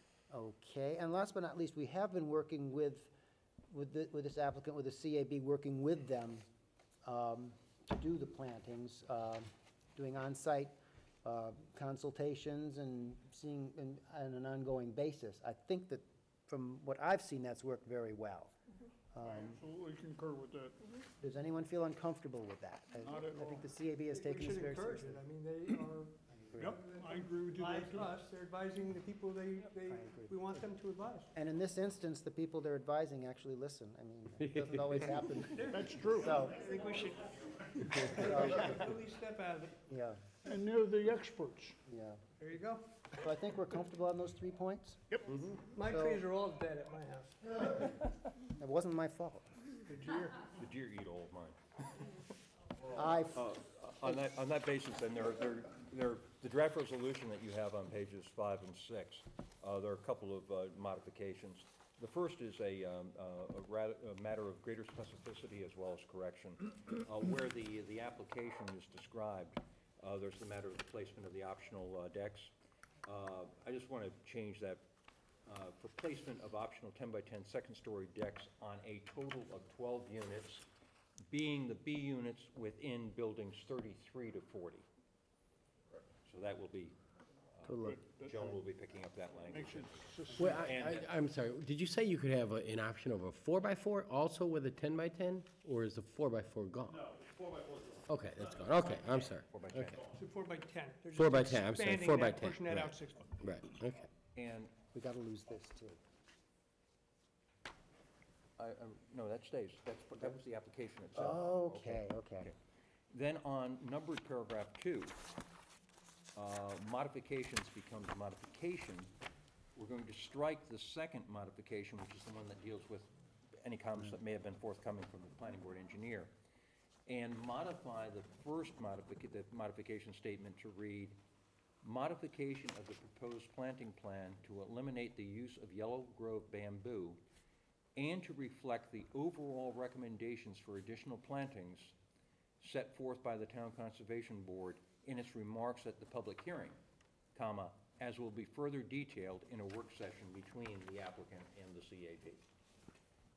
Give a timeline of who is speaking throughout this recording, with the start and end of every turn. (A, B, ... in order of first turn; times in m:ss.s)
0:00.3-0:03.1 A
0:03.7-0:06.4 A
0:07.0-0:18.5 A
0:19.1-0:19.6 A
0:19.2-0:20.8 B
0:21.2-0:25.2 A
0:23.0-0:23.6 B
0:24.1-0:31.3 C
0:26.3-0:26.9 A
0:26.6-0:28.2 B
0:29.9-0:30.6 A
0:31.3-0:36.8 A
0:34.5-0:35.4 D
0:35.6-0:36.4 B
0:35.7-0:39.8 C
0:38.0-0:38.9 A
0:39.9-0:40.3 A
0:40.4-0:41.8 B
0:41.9-0:42.2 A
0:42.4-0:42.8 C
0:43.1-0:46.2 A
0:45.7-0:47.6 C
0:48.5-0:49.5 A
0:50.4-0:51.6 E
0:52.9-0:53.5 A
0:53.3-1:12.5 E
1:13.0-1:14.8 E
1:15.5-1:20.7 E
1:21.3-1:24.9 E
1:26.2-1:27.0 E
1:27.6-1:31.1 E
1:27.6-1:28.0 A
1:27.8-1:28.6 B
1:29.5-1:30.7 B
1:30.4-1:37.0 D
1:37.0-1:40.2 E
1:38.1-1:40.0 D
1:40.2-1:43.3 C
1:41.2-1:44.1 D
1:44.4-1:44.8 E
1:44.9-1:46.0 A
1:48.6-1:52.6 E
1:51.2-1:52.5 A
1:53.1-1:55.2 E
1:56.4-1:59.1 E
1:59.8-2:06.3 E
2:07.1-2:11.2 E
2:11.8-2:17.2 E
2:18.0-2:22.0 E
2:22.6-2:26.8 E
2:27.4-2:32.4 E